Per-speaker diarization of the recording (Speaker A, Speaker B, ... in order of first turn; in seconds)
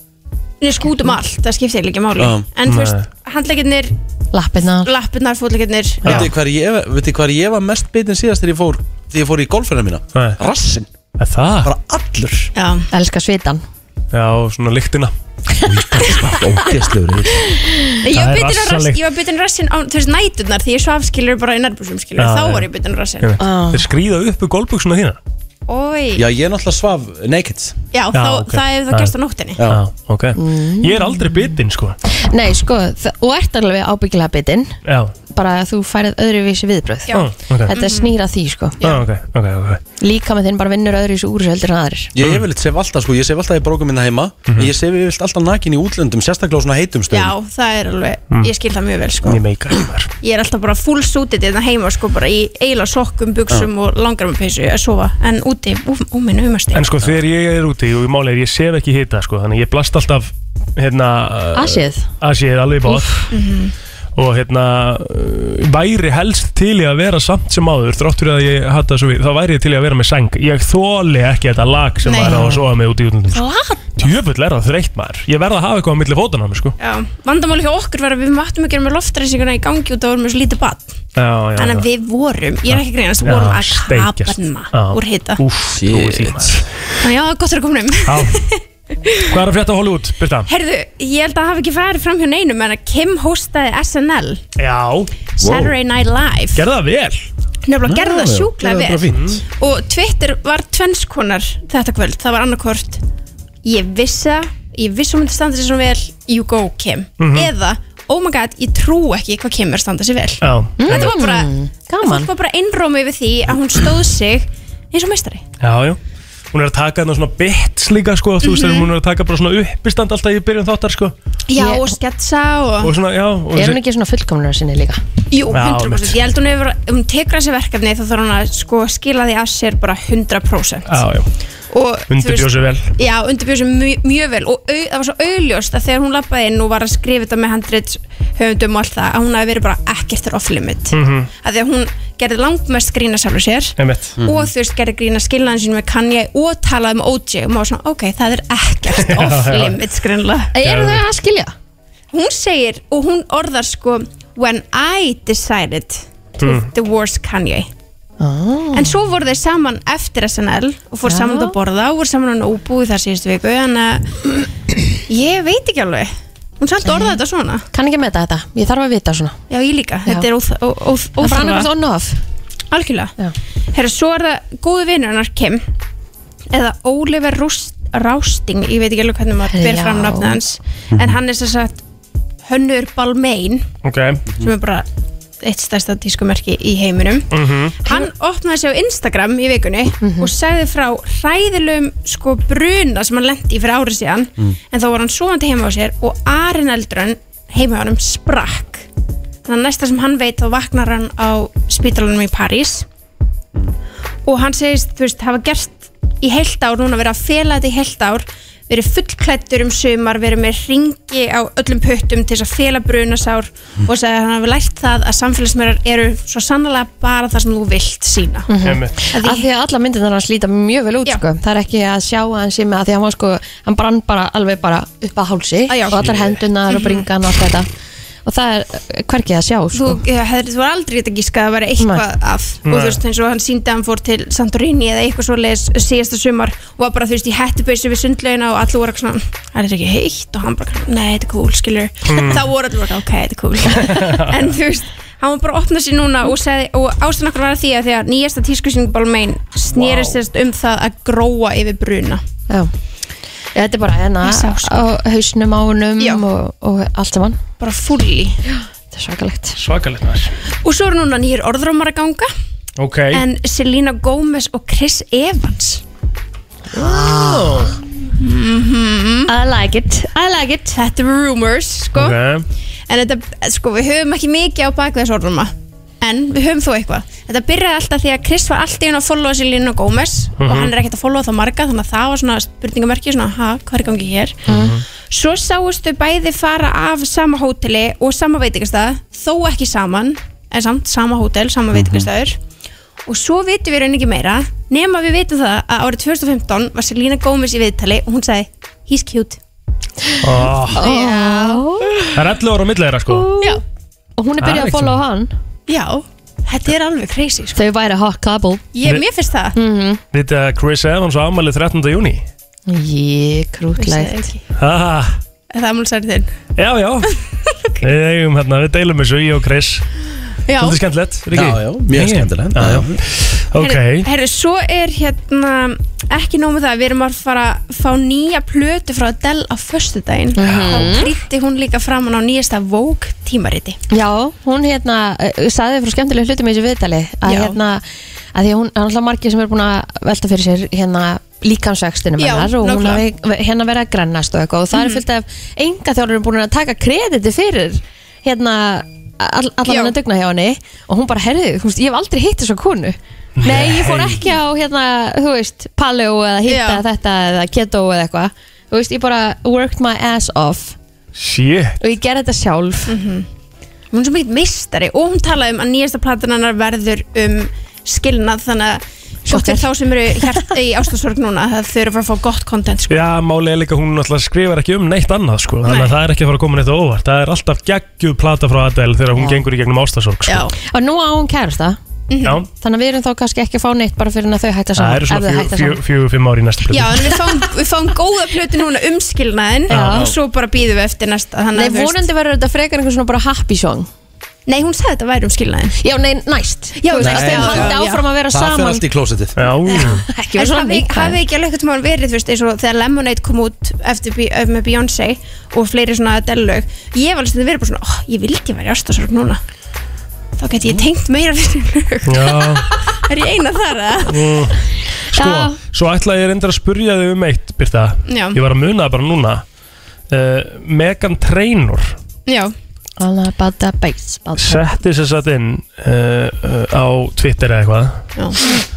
Speaker A: 0.6-3.9, 4.8-6.1, 12.6-12.9, 18.0-23.3, 25.7-26.2, 27.9-29.6, 37.1-38.1, 38.8-39.0, 47.1-49.4, 50.2-56.8, 63.3-63.7, 72.0-72.5, 73.3-74.1, 76.8-81.0, 81.5-85.4, 87.0-89.3, 90.5-94.4, 95.4-96.6, 97.7-103.0, 103.6-115.4, 118.4-118.9, 121.5-122.9, 125.3-131.0, 131.7-150.5, 152.1-157.7, 158.7-164.1, 165.1-167.6, 169.5-171.7, 172.7-173.1, 173.7-175.6, 176.5-181.8, 182.4-183.7, 184.3-184.9, 185.4-187.3, 187.8-198.9, 199.4-202.9, 204.3-218.5, 219.1-219.5, 225.7-226.2, 226.7-227.1, 229.7-252.2, 254.2-254.9, 256.0-256.2, 257.6-258.4, 260.6-262.3, 263.1-265.8, 268.1-269.3, 270.7-272.2, 272.9-284.4, 285.1-292.4, 293.1-299.4, 300.7-301.6, 305.7-307.6, 308.7-309.6, 313.8-314.4, 315.5-316.3, 320.5-320.8, 323.6-333.8, 337.3-337.6, 342.2-343.0, 344.7-345.0, 349.7-349.9, 356.5-356.8, 362.9-363.3, 363.9-373.0, 375.6-375.9, 380.3-380.5, 382.1-382.4, 386.7-392.0, 394.5-395.7, 396.8-398.1, 399.6-409.4, 410.4-414.5, 418.1-418.4, 422.3-422.5
Speaker B: 2.2-2.5, 6.0-10.9, 11.6-12.5, 15.7-17.4, 26.1-27.8, 42.1-47.3, 85.7-86.6, 95.4-95.7, 97.9-99.4, 144.2-144.5, 291.7-292.1, 321.3-323.0, 397.0-399.4
Speaker C: 2.7-3.1, 6.0-6.3, 11.2-11.7, 14.1-15.1, 18.1-19.0, 22.2-22.7, 23.2-25.2, 28.1-29.1, 29.7-32.0, 34.9-35.1, 37.1-37.7, 38.8-39.8, 49.2-50.1, 56.7-63.2, 64.2-73.4, 74.0-76.8, 81.2-81.9, 82.7-86.7, 88.0-88.4, 89.3-90.5, 94.6-95.1, 96.5-97.3, 99.1-99.4, 107.2-107.5, 110.4-111.1, 115.6-116.0, 116.5-121.1, 122.8-123.8, 125.5-126.2, 130.9-131.3, 132.1-132.9, 140.9-141.3, 143.8-144.2, 148.9-149.8, 150.6-151.0, 156.4-156.7, 183.8-184.2, 187.3-187.9, 218.6-218.9, 226.0-226.3, 232.6-233.0, 242.1-242.5, 243.8-244.4, 249.8-250.2, 259.6-260.3, 262.8-263.2, 266.7-267.7, 271.9-272.4, 280.4-280.7, 284.4-284.8, 300.2-300.8, 302.1-303.3, 304.4-305.0, 310.1-312.2, 314.6-315.2, 316.6-317.1, 317.8-319.9, 320.6-324.1, 330.4-330.8, 353.4-354.2, 361.1-361.8, 372.9-380.5, 384.8-387.1, 389.7-390.1, 399.4-400.1, 412.1-412.7, 414.1-419.4, 420.1-421.9, 424.4-428.0
Speaker D: 4.3-4.9, 12.9-13.6, 17.7-17.9, 23.4-23.8, 30.4-31.6, 32.1-34.7, 35.3-38.8, 40.0-42.1, 61.5-62.1, 72.2-72.6, 110.8-112.3, 121.5-121.9, 123.5-125.0, 150.5-151.5, 158.2-159.0, 161.1-161.6, 166.8-167.2, 167.7-169.4, 171.2-172.2, 179.5-180.4, 190.0-190.3, 218.5-227.7, 228.2-230.0, 231.8-232.0, 253.6-257.4, 258.5-259.6, 266.7-267.8, 269.3-270.7, 284.5-284.7, 300.7-302.1, 303.1-303.6, 304.2-305.3, 307.5-308.6, 309.6-310.0, 312.7-314.3, 330.3-331.1, 333.9-360.8, 361.8-362.9, 369.3-370.5, 379.1-379.4, 380.6-381.8, 382.6-385.8, 389.7-390.1, 391.5-393.9, 395.8-398.8, 399.7-401.2, 415.2-415.5, 423.0-424.6